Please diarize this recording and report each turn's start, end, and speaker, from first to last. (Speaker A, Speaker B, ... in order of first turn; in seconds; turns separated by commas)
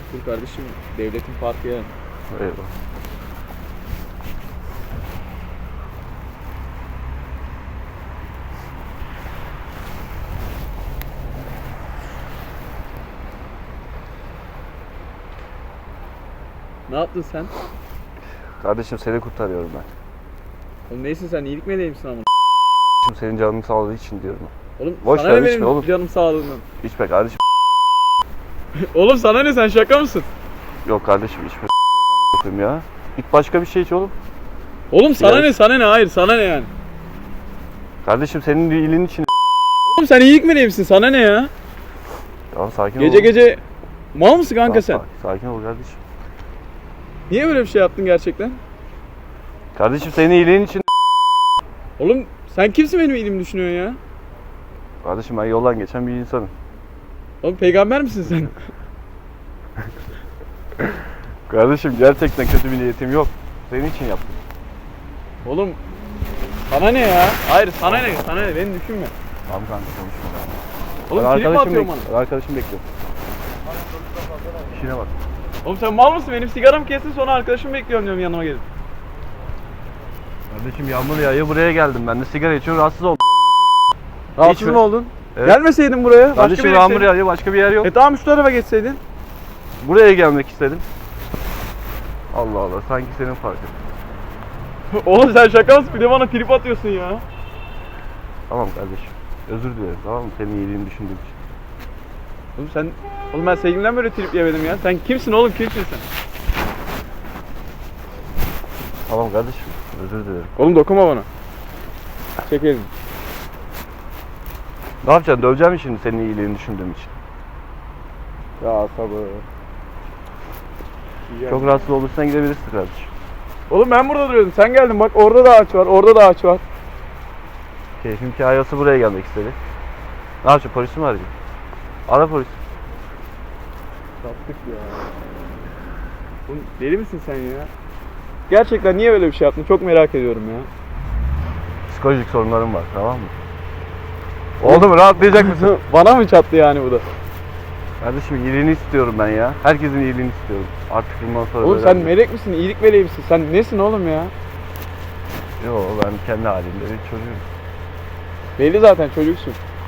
Speaker A: 0.1-1.9, Speaker B: 2.3-2.7, Speaker A: 16.9-17.5, Speaker B: 18.6-19.9, Speaker A: 20.9-22.3, Speaker B: 23.0-24.5, Speaker A: 24.8-26.6, Speaker B: 25.0-25.9, Speaker B: 26.8-27.4, Speaker A: 28.8-30.3, Speaker B: 30.8-31.7, Speaker B: 32.3-34.1, Speaker A: 34.9-36.7, Speaker B: 35.1-35.5, Speaker B: 38.0-39.3, Speaker A: 39.9-41.5, Speaker B: 42.5-43.3, Speaker A: 43.0-43.6, Speaker A: 44.1-45.0, Speaker B: 44.6-46.0, Speaker A: 47.3-48.6, Speaker B: 49.7-50.8, Speaker A: 52.0-54.0, Speaker B: 55.0-56.5, Speaker A: 57.4-58.6, Speaker B: 61.5-64.4, Speaker A: 65.4-65.8, Speaker A: 66.7-69.1, Speaker B: 67.8-68.5, Speaker B: 69.5-70.6, Speaker A: 71.1-72.1, Speaker B: 71.1-72.8, Speaker B: 74.7-75.1, Speaker A: 75.6-78.6, Speaker B: 80.5-83.5, Speaker A: 84.3-87.1, Speaker B: 84.4-84.8, Speaker B: 86.3-87.9, Speaker A: 87.8-89.0, Speaker B: 89.8-90.8, Speaker B: 92.3-93.7, Speaker A: 94.9-97.2, Speaker B: 98.5-101.3, Speaker A: 102.6-106.0, Speaker B: 109.1-110.5, Speaker A: 110.5-111.3, Speaker A: 112.4-112.9, Speaker B: 115.0-117.1, Speaker A: 118.6-119.4, Speaker A: 121.3-121.9, Speaker B: 121.5-123.1, Speaker A: 123.7-126.6, Speaker B: 128.0-129.6, Speaker B: 130.4-131.3, Speaker B: 132.1-132.6, Speaker A: 134.2-135.2, Speaker A: 136.5-137.7, Speaker A: 138.5-140.7, Speaker B: 141.9-143.3, Speaker B: 144.6-145.7, Speaker A: 144.6-147.1, Speaker B: 148.0-152.1, Speaker A: 151.6-154.3, Speaker B: 155.6-157.4, Speaker A: 158.6-159.6